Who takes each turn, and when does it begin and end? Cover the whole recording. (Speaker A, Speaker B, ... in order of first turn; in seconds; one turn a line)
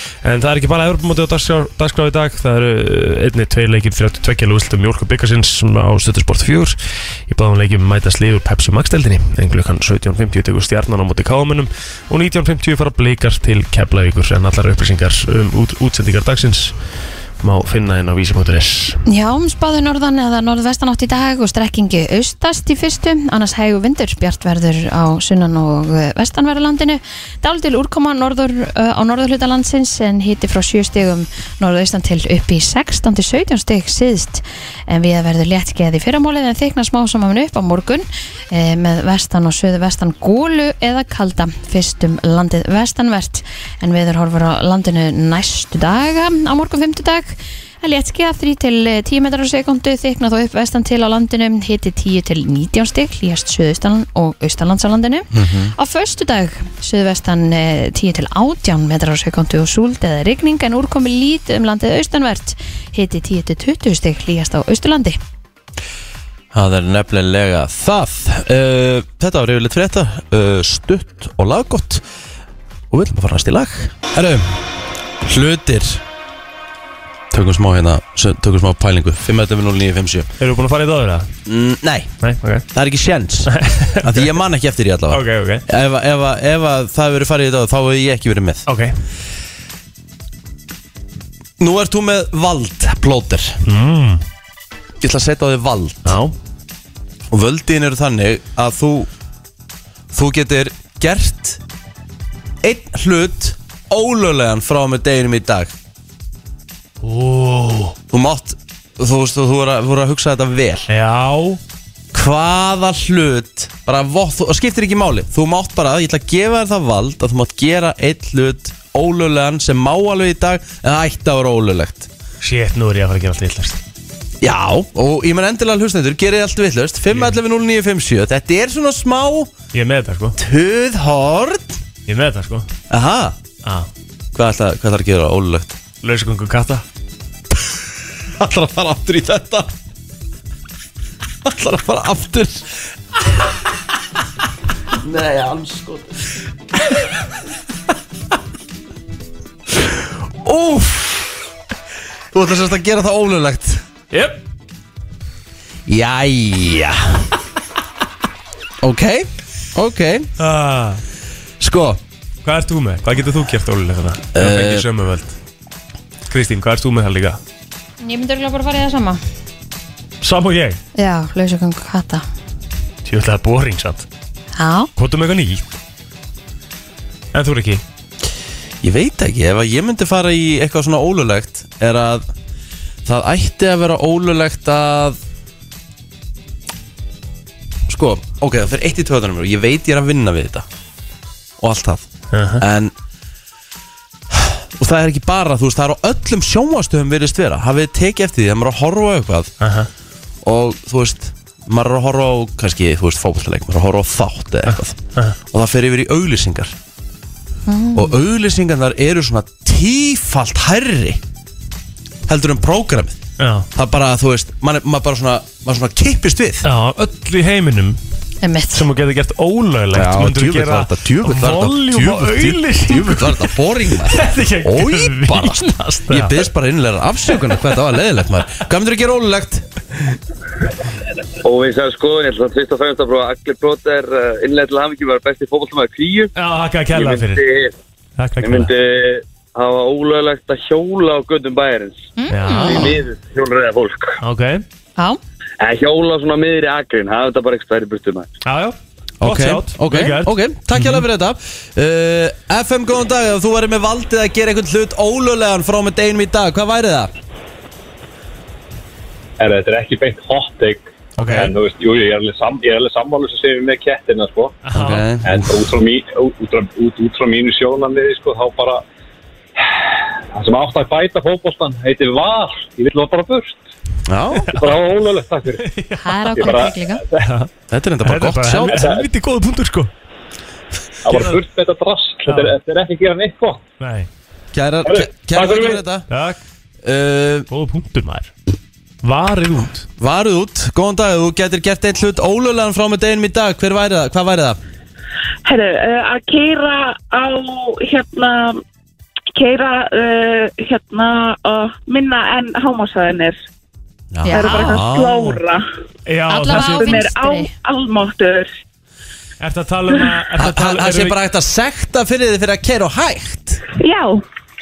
Speaker A: 0.2-6.8
Speaker A: 7.3-16.7
Speaker A: 17.4-19.0
Speaker B: 19.1-65.2
Speaker C: 55.3-55.7
Speaker C: 66.5-72.0
Speaker C: 72.9-74.5
Speaker C: 75.2-76.0
Speaker C: 77.3-80.3
Speaker A: 80.4-81.3
Speaker C: 81.5-82.1
Speaker A: 82.2-82.7
Speaker C: 82.7-88.7
Speaker A: 83.5-84.3
Speaker A: 85.1-85.6
Speaker A: 88.7-88.9
Speaker C: 91.6-93.6
Speaker A: 93.6-94.2
Speaker C: 95.0-96.1
Speaker A: 96.0-96.3
Speaker C: 97.3-99.1
Speaker C: 100.1-101.6
Speaker C: 102.6-105.7
Speaker A: 107.0-108.0
Speaker C: 108.1-110.9
Speaker A: 110.9-111.6
Speaker C: 112.1-122.1
Speaker A: 122.4-123.8
Speaker C: 124.4-129.5
Speaker A: 127.1-127.3
Speaker A: 129.7-130.4
Speaker C: 130.4-131.8
Speaker A: 132.1-132.7
Speaker C: 132.9-133.4
Speaker C: 134.3-135.8
Speaker A: 136.0-136.8
Speaker C: 138.4-139.7
Speaker C: 141.4-142.7
Speaker C: 144.9-146.2
Speaker C: 150.4-151.4
Speaker C: 152.3-153.8
Speaker A: 154.1-154.4
Speaker C: 155.9-157.3
Speaker C: 158.8-160.3
Speaker A: 160.4-161.0
Speaker C: 161.6-162.0
Speaker A: 162.4-165.3
Speaker C: 164.3-164.8
Speaker A: 166.3-167.4
Speaker B: 168.0-169.2
Speaker A: 170.2-170.8
Speaker B: 170.9-172.2
Speaker A: 173.0-174.1
Speaker B: 174.6-174.9
Speaker A: 174.9-175.6
Speaker A: 177.3-177.8
Speaker C: 178.8-182.3
Speaker C: 183.0-185.2
Speaker C: 187.9-190.7
Speaker C: 191.6-192.1
Speaker A: 192.3-192.6
Speaker C: 192.6-192.9
Speaker C: 194.3-199.5
Speaker A: 199.6-199.9
Speaker C: 200.4-206.7
Speaker A: 204.7-205.3
Speaker B: 207.7-208.2
Speaker C: 207.9-211.2
Speaker C: 212.3-213.2
Speaker A: 213.4-213.7
Speaker C: 213.7-216.7
Speaker A: 216.6-218.0
Speaker B: 218.4-218.8
Speaker A: 218.7-226.4
Speaker C: 219.9-229.7
Speaker D: 231.4-236.3
Speaker A: 236.3-237.4
Speaker D: 236.9-237.7
Speaker A: 238.2-238.7
Speaker D: 238.4-242.0
Speaker B: 242.2-242.8
Speaker A: 242.3-243.0
Speaker D: 242.6-244.2
Speaker A: 244.2-244.6
Speaker D: 245.6-248.3
Speaker A: 248.4-251.0
Speaker C: 249.2-257.1
Speaker E: 259.4-264.6
Speaker C: 261.2-261.5
Speaker A: 264.6-265.0
Speaker C: 264.7-265.6
Speaker E: 265.2-268.8
Speaker E: 270.3-273.6
Speaker C: 274.1-274.5
Speaker E: 274.5-275.6
Speaker A: 275.6-276.6
Speaker B: 276.0-277.0
Speaker E: 276.3-277.3
Speaker A: 277.2-277.5
Speaker C: 277.7-278.9
Speaker A: 278.0-279.9
Speaker E: 278.7-279.0
Speaker E: 281.0-283.6
Speaker A: 281.1-281.4
Speaker A: 282.2-282.6
Speaker A: 283.8-284.1
Speaker C: 284.5-286.1
Speaker E: 284.9-285.8
Speaker A: 286.1-286.4
Speaker C: 286.8-287.5
Speaker A: 287.5-288.3
Speaker A: 289.0-289.9
Speaker C: 290.0-294.6
Speaker F: 295.4-298.6
Speaker F: 299.4-303.4
Speaker C: 304.1-305.4
Speaker B: 304.2-304.9
Speaker F: 304.3-305.6
Speaker A: 306.1-307.0
Speaker B: 306.3-307.5
Speaker F: 306.5-308.5
Speaker A: 309.4-311.2
Speaker C: 310.4-313.6
Speaker F: 313.8-314.2